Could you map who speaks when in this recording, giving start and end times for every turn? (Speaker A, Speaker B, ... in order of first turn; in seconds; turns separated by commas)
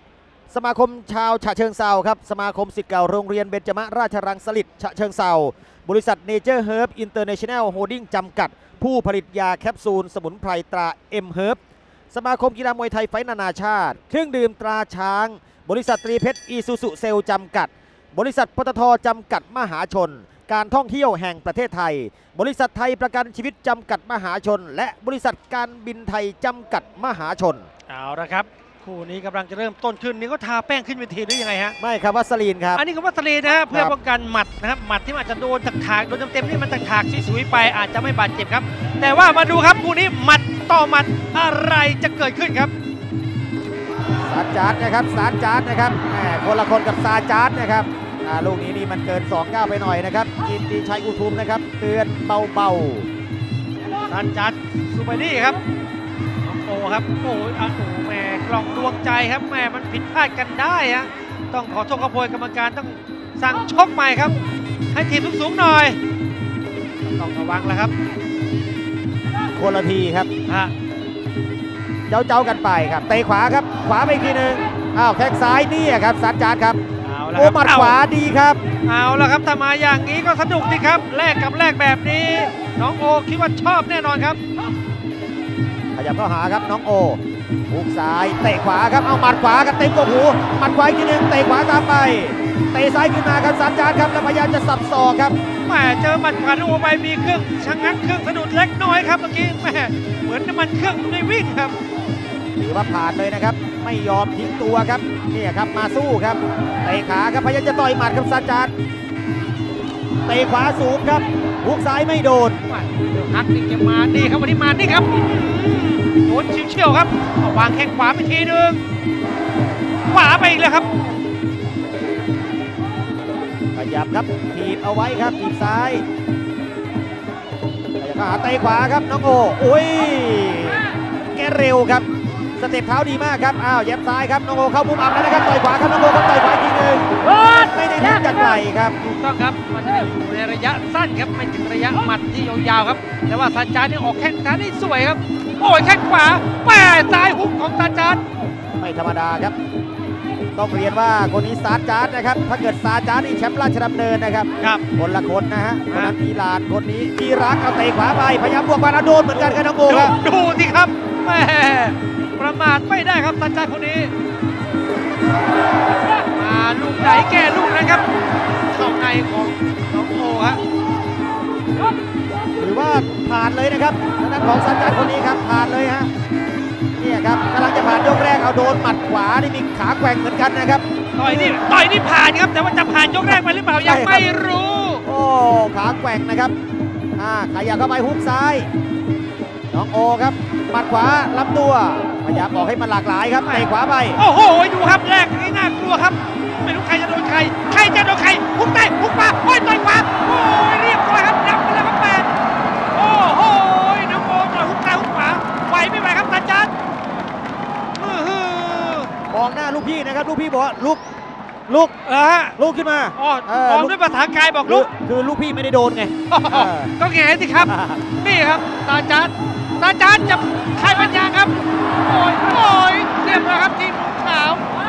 Speaker A: 0.5-11.6, Speaker A: 12.1-27.6, Speaker B: 27.9-31.8, Speaker A: 31.8-32.8, Speaker B: 32.8-42.7, Speaker A: 33.7-33.9, Speaker A: 44.2-53.1, Speaker B: 54.1-55.6, Speaker B: 56.4-64.3, Speaker B: 64.9-66.0, Speaker B: 67.1-67.9, Speaker A: 69.5-70.3, Speaker B: 70.5-70.7, Speaker A: 72.1-76.8, Speaker B: 77.0-78.0, Speaker A: 77.3-78.6, Speaker B: 78.8-84.4, Speaker A: 85.9-95.3, Speaker B: 95.6-101.8, Speaker A: 102.6-108.7, Speaker A: 110.2-112.6, Speaker B: 112.7-118.8, Speaker B: 120.1-120.9, Speaker A: 123.7-126.0, Speaker A: 128.0-132.1, Speaker A: 132.6-137.0, Speaker A: 137.6-138.9, Speaker B: 139.0-148.2, Speaker A: 148.8-149.5, Speaker A: 150.6-160.1, Speaker B: 159.3-164.1, Speaker B: 166.2-168.1, Speaker B: 168.7-170.6, Speaker A: 172.6-176.1, Speaker A: 177.0-181.6, Speaker B: 181.2-185.0, Speaker A: 183.3-184.3, Speaker A: 185.0-186.5, Speaker A: 187.2-188.7, Speaker A: 189.7-194.2, Speaker B: 193.4-202.3, Speaker B: 202.9-206.7, Speaker B: 207.9-209.1, Speaker A: 209.3-211.0, Speaker A: 211.7-211.9, Speaker B: 212.0-212.6, Speaker A: 212.6-213.9, Speaker B: 213.2-214.9, Speaker A: 214.6-216.9, Speaker B: 216.3-224.7, Speaker A: 217.6-218.0